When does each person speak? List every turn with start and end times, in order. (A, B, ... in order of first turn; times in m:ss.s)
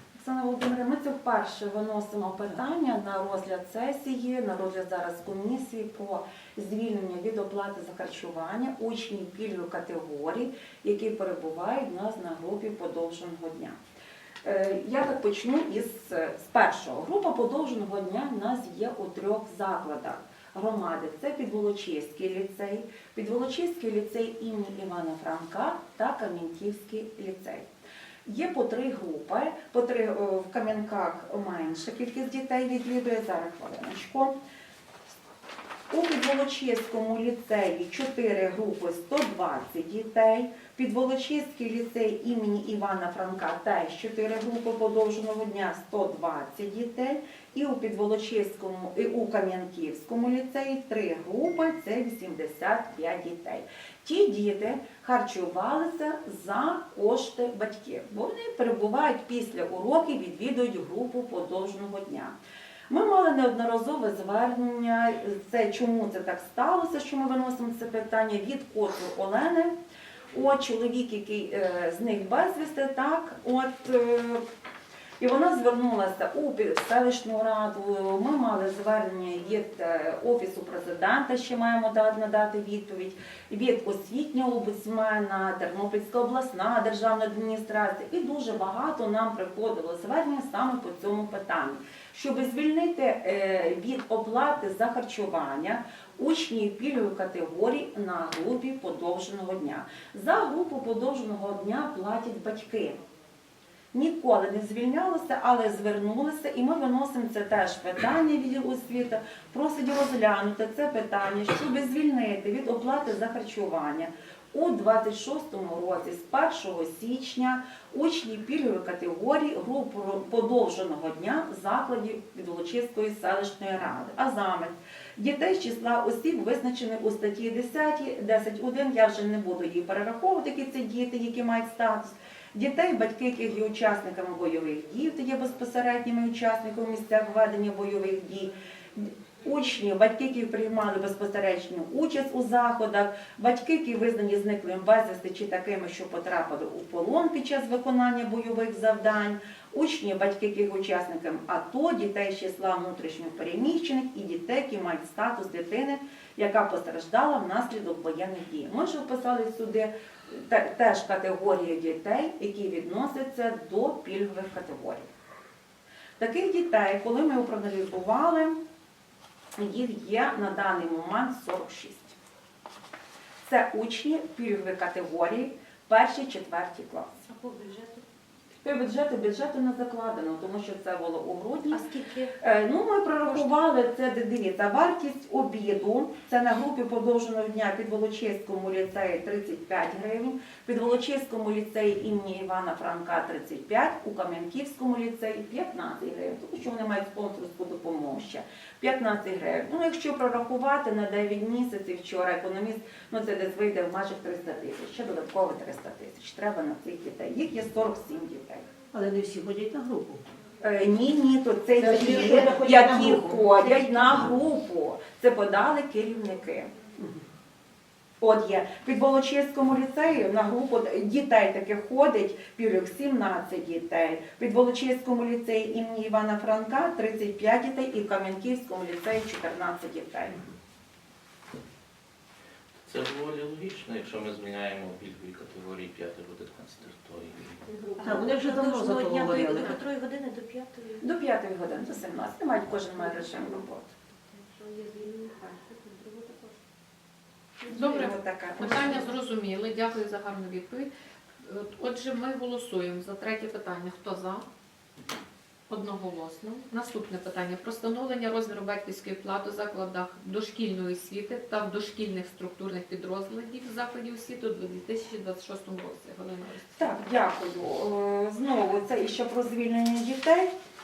0:00.2-0:13.8 A
0:14.4-0:27.7 A
0:28.2-0:34.3 A
0:35.9-1:02.3 A
1:02.9-1:09.7 A
1:10.3-1:14.4 A
1:15.2-1:43.0 A
1:43.9-2:45.1 A
2:46.2-2:48.6 A
2:49.6-2:52.1 A
2:53.4-2:57.2 A
2:57.2-2:58.0 B
2:58.6-3:01.8 A
3:01.7-3:02.3 B
3:02.4-3:28.7 A
3:28.9-3:30.2 C
3:30.6-3:36.8 A
3:31.7-3:34.4 C
3:38.2-3:50.4 A
3:52.8-3:57.6 D
3:57.7-3:58.2 E
3:58.0-4:01.0 B
3:58.0-3:59.8 C
4:01.0-4:03.9 A
4:03.0-4:06.6 E
4:07.6-4:08.1 E
4:07.7-4:09.1 A
4:07.7-4:10.9 F
4:08.6-4:09.0 E
4:11.4-4:14.4 F
4:15.7-4:27.0 F
4:26.8-4:30.5 A